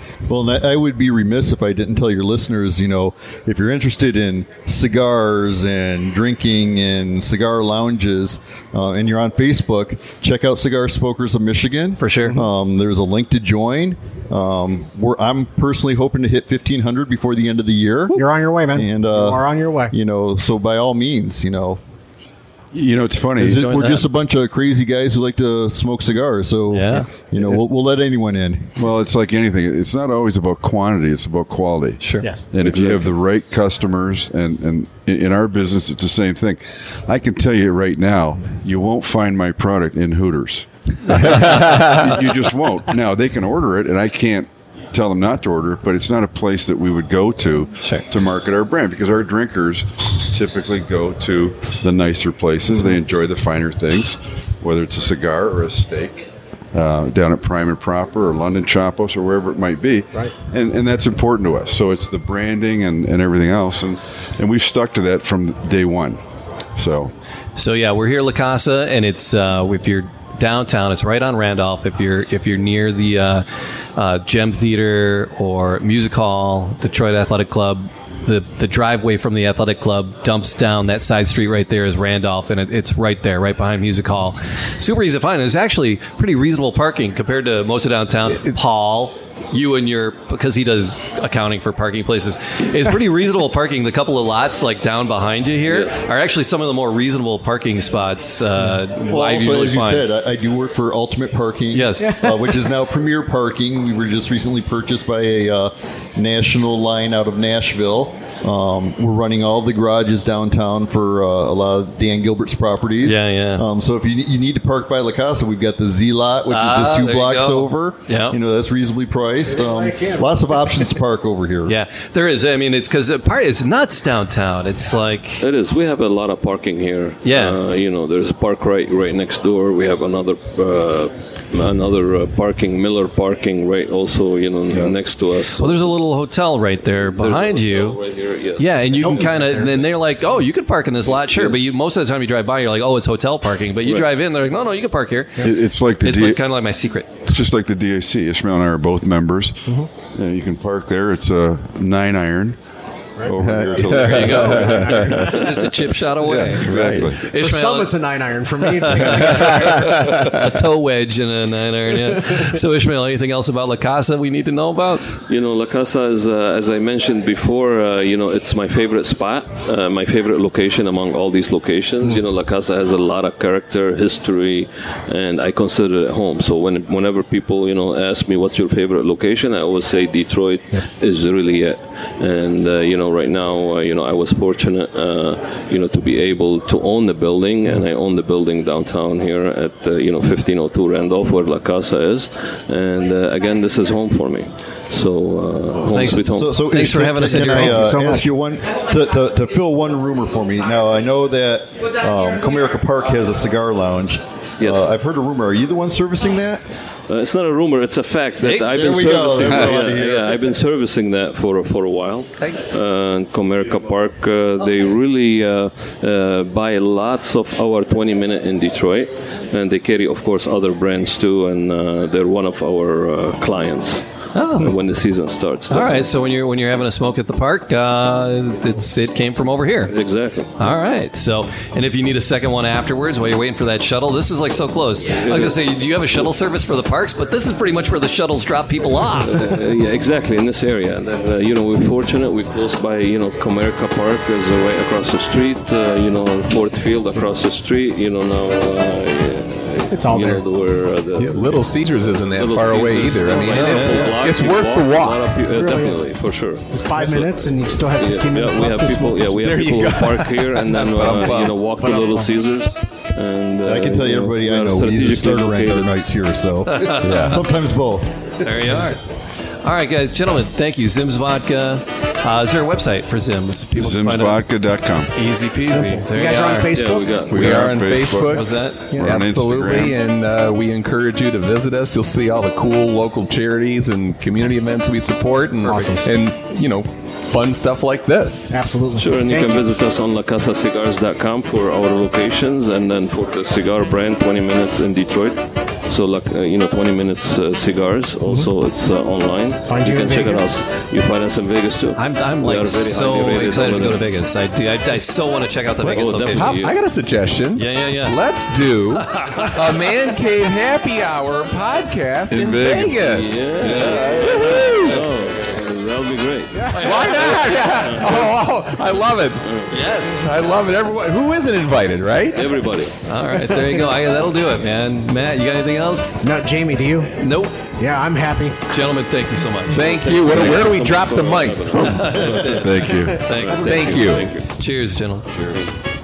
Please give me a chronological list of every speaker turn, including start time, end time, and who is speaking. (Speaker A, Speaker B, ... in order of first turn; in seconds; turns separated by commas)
Speaker A: 0.3-21.8, Speaker B: 12.0-12.4, Speaker C: 18.1-19.9, Speaker D: 22.7-23.7, Speaker A: 23.4-28.8, Speaker B: 23.4-24.1, Speaker B: 26.7-27.1, Speaker D: 28.8-66.2, Speaker B: 32.0-32.3, Speaker C: 32.2-32.5, Speaker E: 32.6-33.0, Speaker F: 41.6-41.9, Speaker D: 66.8-67.1, Speaker B: 67.6-73.5, Speaker B: 74.0-100.0, Speaker E: 95.7-96.1, Speaker A: 99.1-121.8, Speaker B: 101.7-102.3, Speaker C: 102.0-102.4, Speaker B: 113.0-113.7, Speaker B: 116.5-118.4, Speaker C: 119.5-120.4, Speaker B: 121.7-125.4, Speaker E: 125.4-135.8, Speaker B: 127.2-127.6, Speaker B: 135.6-138.0, Speaker E: 137.2-139.2, Speaker B: 138.6-145.5, Speaker C: 139.0-139.8, Speaker E: 141.1-141.6, Speaker D: 145.4-146.4, Speaker B: 146.0-147.1, Speaker D: 147.2-152.6, Speaker D: 153.2-155.1, Speaker F: 153.4-155.3, Speaker B: 153.8-158.0, Speaker E: 155.2-155.7, Speaker D: 156.2-157.3, Speaker F: 156.6-157.2, Speaker C: 157.2-159.7, Speaker B: 158.8-165.1, Speaker F: 159.3-160.3, Speaker C: 162.1-162.5, Speaker E: 165.3-196.6, Speaker B: 195.8-197.9, Speaker A: 196.1-206.6, Speaker C: 197.2-198.3, Speaker E: 204.6-204.9, Speaker E: 207.1-224.1, Speaker B: 208.4-209.0, Speaker A: 208.7-210.6, Speaker D: 209.4-209.8, Speaker B: 224.3-224.7, Speaker E: 224.6-226.1, Speaker B: 225.7-229.9, Speaker E: 229.9-230.5, Speaker B: 230.6-239.4, Speaker E: 235.1-235.6, Speaker E: 239.3-251.7, Speaker C: 249.9-250.4, Speaker F: 251.2-255.4, Speaker E: 252.2-265.9, Speaker C: 253.3-254.1, Speaker B: 253.5-254.1, Speaker C: 255.6-259.3, Speaker F: 259.3-261.6, Speaker B: 260.7-261.4, Speaker C: 261.8-262.3, Speaker A: 263.6-268.3, Speaker B: 266.7-267.4, Speaker F: 267.0-267.4, Speaker B: 268.4-269.0, Speaker B: 269.6-274.4, Speaker D: 273.7-275.1, Speaker B: 275.1-276.7, Speaker C: 275.6-277.3, Speaker E: 276.7-277.8, Speaker D: 277.3-280.0, Speaker F: 277.3-288.5, Speaker B: 278.3-278.9, Speaker C: 285.6-286.1, Speaker C: 288.5-289.6, Speaker E: 289.0-304.0, Speaker C: 299.7-300.5, Speaker B: 302.0-306.6, Speaker F: 305.8-313.5, Speaker E: 305.9-306.8, Speaker B: 307.6-308.2, Speaker B: 309.0-309.6, Speaker D: 312.3-314.4, Speaker E: 313.0-318.4, Speaker F: 314.2-315.0, Speaker B: 314.3-314.8, Speaker B: 316.7-317.5, Speaker F: 316.8-319.5, Speaker E: 319.4-319.8, Speaker B: 319.7-320.3, Speaker F: 320.1-322.5, Speaker E: 322.3-322.9, Speaker B: 323.1-326.2, Speaker C: 326.2-327.1, Speaker B: 327.2-327.6, Speaker C: 327.8-328.6, Speaker B: 328.7-330.7, Speaker F: 329.7-332.4, Speaker E: 330.2-334.5, Speaker B: 331.9-335.3, Speaker D: 332.4-333.2, Speaker F: 333.6-334.4, Speaker D: 335.4-335.6, Speaker E: 335.5-335.7